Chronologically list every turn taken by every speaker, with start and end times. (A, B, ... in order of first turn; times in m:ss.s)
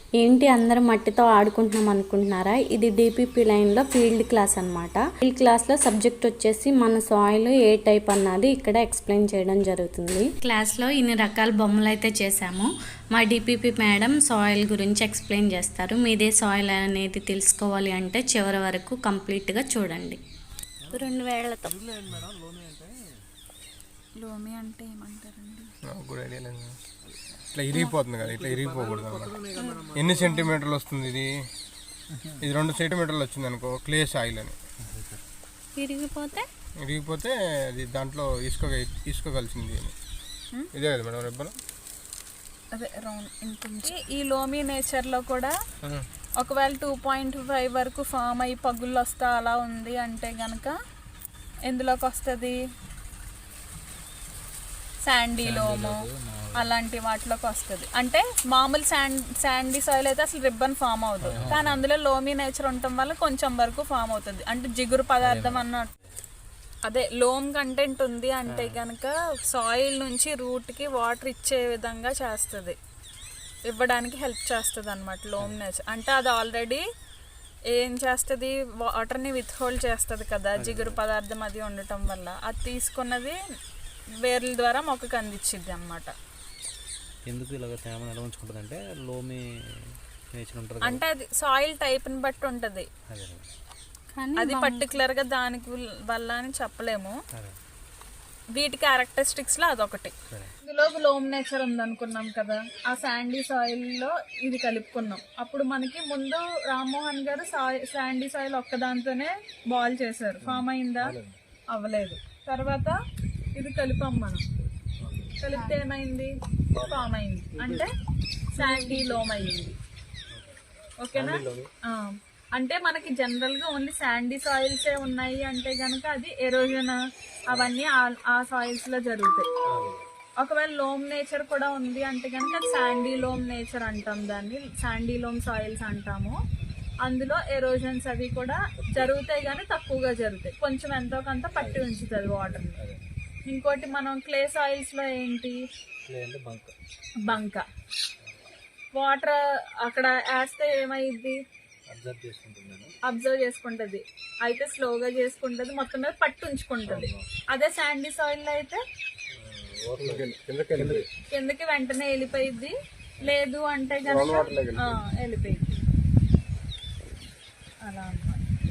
0:00.2-0:20.2 A
0:20.8-0:21.1 B
0:20.9-0:21.8 A
0:21.7-0:22.9 B
0:24.2-0:25.7 C
0:25.9-0:26.8 D
0:27.5-0:29.4 D
0:28.2-0:30.4 B
0:29.6-0:30.5 C
0:29.9-0:31.3 D
0:32.4-0:34.6 D
0:34.9-0:35.2 B
0:35.8-0:36.4 A
0:36.8-0:39.9 D
0:40.7-0:41.5 D
0:42.7-0:45.5 C
0:46.4-0:50.8 C
0:51.7-0:52.6 C
0:55.0-0:56.0 C
0:55.4-0:56.7 B
0:56.5-1:05.9 C
1:01.2-1:01.8 B
1:05.2-1:05.7 B
1:06.8-1:12.8 C
1:08.5-1:08.8 B
1:13.7-1:16.8 C
1:17.7-1:23.4 C
1:20.6-1:21.0 B
1:24.2-1:26.1 C
1:27.3-1:31.0 B
1:30.8-1:32.9 C
1:33.1-1:33.5 B
1:34.2-1:34.9 A
1:34.4-1:37.2 C
1:38.6-1:51.2 C
1:50.4-1:51.4 B
1:51.7-1:53.0 C
1:53.6-1:54.4 C
1:55.0-1:55.4 B
1:55.4-1:57.9 C
1:56.7-1:57.8 B
1:58.6-1:59.8 C
1:58.6-1:59.2 A
2:00.3-2:00.6 B
2:01.0-2:07.0 C
2:01.1-2:01.7 B
2:07.5-2:09.5 C
2:09.7-2:10.0 B
2:10.4-2:16.4 C
2:17.0-2:22.8 C
2:18.8-2:19.2 B
2:21.6-2:21.8 B
2:22.4-2:23.0 B
2:23.5-2:25.6 C
2:26.1-2:26.7 B
2:27.2-2:27.6 C
2:28.9-2:31.4 C
2:31.9-2:32.9 B
2:33.0-2:38.8 C
2:36.8-2:37.3 B
2:39.3-2:41.1 B
2:40.0-2:41.1 D
2:41.3-2:45.8 C
2:44.0-2:45.0 D
2:47.8-2:48.4 C